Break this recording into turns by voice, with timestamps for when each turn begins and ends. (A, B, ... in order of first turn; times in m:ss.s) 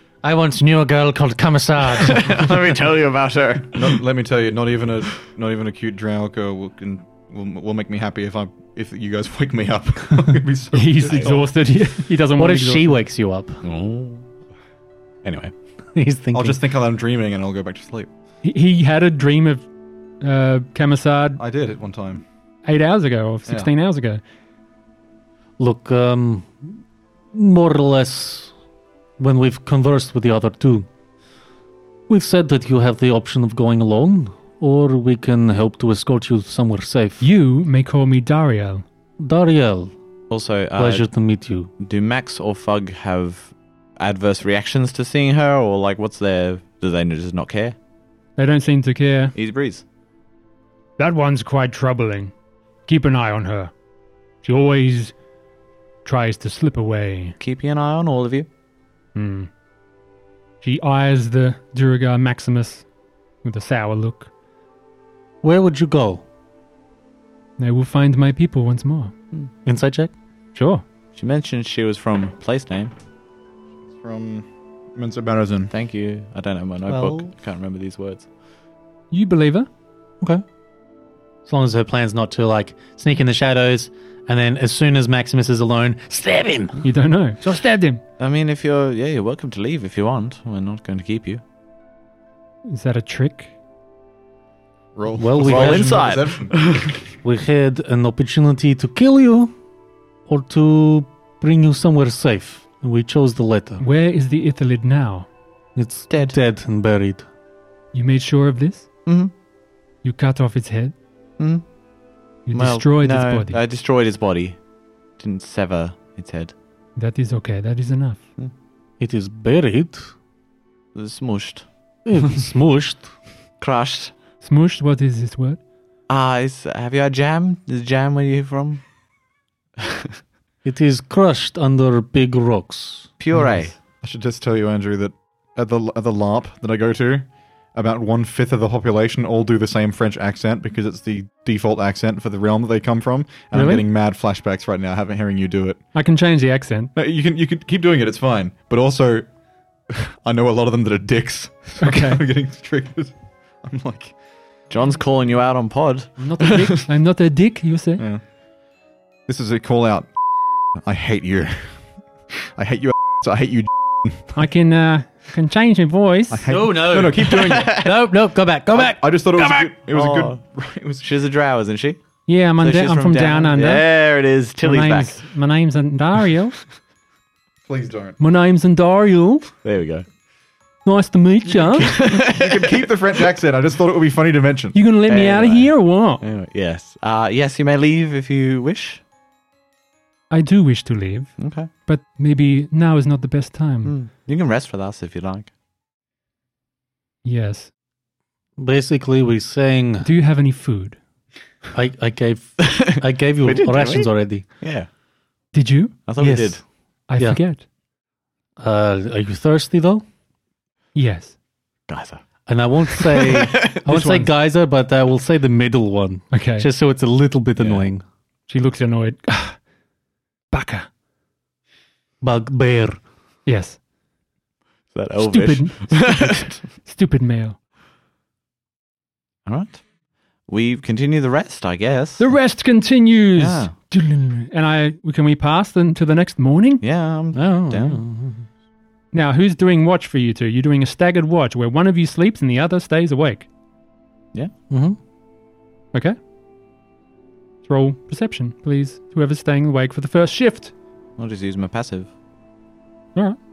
0:00.2-0:02.4 A
0:01.9-0:04.0 B
0:03.7-0:11.5 C
0:10.7-0:13.0 D
0:12.4-0:13.6 A
0:13.6-0:14.3 B
0:15.2-0:15.5 B
0:15.9-0:16.6 A
0:16.3-0:18.1 C
0:18.4-0:19.7 D
0:20.2-0:21.4 D
0:21.4-0:22.2 C
0:22.6-0:24.2 D
0:25.6-0:26.8 A
0:27.3-0:28.5 A
0:29.2-0:30.9 A
0:32.1-0:37.2 A
0:37.2-0:38.8 D
0:39.2-0:39.9 A
0:40.3-0:41.1 B
0:40.8-0:41.7 A
0:41.8-0:47.8 B
0:48.4-0:49.3 D
0:49.3-0:49.8 B
0:51.0-0:52.3 D
0:52.9-0:53.7 D
0:54.4-0:55.1 D
0:56.0-0:57.4 D
0:57.4-0:58.5 B
0:59.1-0:59.5 D
1:00.6-1:02.8 D
1:03.4-1:04.3 D
1:05.4-1:06.2 A
1:07.6-1:09.1 D
1:09.6-1:10.1 A
1:10.5-1:10.8 D
1:11.2-1:12.9 B
1:13.9-1:15.7 C
1:15.7-1:18.3 B
1:16.9-1:17.3 A
1:19.1-1:19.7 D
1:21.4-1:26.8 A
1:26.8-1:28.0 D
1:28.2-1:31.4 B
1:32.6-1:33.5 D
1:35.0-1:36.8 C
1:35.2-1:36.0 A
1:35.4-1:37.0 B
1:37.2-1:39.5 A
1:40.3-1:43.8 A
1:43.8-1:45.3 D
1:45.8-1:47.3 A
1:47.9-1:48.9 D
1:49.0-1:49.3 B
1:50.0-1:50.9 D
1:51.4-1:51.6 B
1:52.5-1:53.6 D
1:52.5-1:54.6 B
1:55.2-1:56.5 B
1:57.0-1:58.2 D
1:59.0-2:00.1 A
2:00.9-2:01.6 B
2:02.0-2:03.1 A
2:03.6-2:04.1 B
2:04.4-2:05.6 D
2:06.1-2:08.8 B
2:09.8-2:10.1 B
2:10.6-2:13.5 A
2:13.2-2:13.7 B
2:14.0-2:25.8 C
2:23.5-2:23.8 D
2:25.9-2:26.9 D
2:26.9-2:29.3 C
2:29.9-2:34.1 C
2:31.8-2:32.2 D
2:34.7-2:36.8 B
2:36.2-2:38.0 D
2:39.3-2:40.1 C
2:40.8-2:41.8 C
2:42.3-2:44.4 C
2:44.3-2:46.5 D
2:46.3-2:47.7 C
2:46.4-2:49.6 A
2:47.2-2:47.9 B
2:48.7-2:51.1 C
2:49.9-2:50.4 B
2:51.0-2:52.0 B
2:52.3-2:53.8 D
2:52.6-2:55.2 B
2:54.6-2:56.6 D
2:57.7-2:58.2 C
2:58.2-2:59.5 D
2:59.6-3:00.0 B
3:00.8-3:01.9 D
3:01.5-3:04.8 C
3:01.8-3:02.9 B
3:04.7-3:06.2 D
3:05.1-3:09.0 B
3:10.3-3:13.9 D
3:11.4-3:11.7 B
3:13.8-3:15.5 B
3:17.2-3:17.7 D
3:18.6-3:20.1 A
3:20.0-3:21.0 D
3:21.7-3:24.4 A
3:22.6-3:22.9 B
3:23.4-3:24.1 B
3:24.6-3:24.9 B
3:25.5-3:26.0 D
3:26.0-3:26.6 B
3:26.2-3:26.6 A
3:27.1-3:27.6 D
3:28.6-3:30.0 A
3:30.9-3:31.3 D
3:31.9-3:32.2 B
3:32.4-3:38.0 A
3:32.9-3:33.9 B
3:33.9-3:34.3 D
3:36.3-3:36.7 D
3:37.6-3:37.8 B
3:38.5-3:39.6 D
3:40.5-3:40.9 D
3:42.2-3:43.0 A
3:43.4-3:43.8 D
3:44.9-3:46.6 B
3:45.2-3:47.6 D
3:49.5-3:49.8 B
3:50.5-3:52.3 B
3:52.2-3:56.8 D
3:53.4-3:53.7 B
3:56.8-3:58.0 B
3:57.3-3:58.5 A
3:59.1-4:03.5 D
4:04.7-4:05.0 A
4:07.6-4:10.7 D
4:11.2-4:12.1 B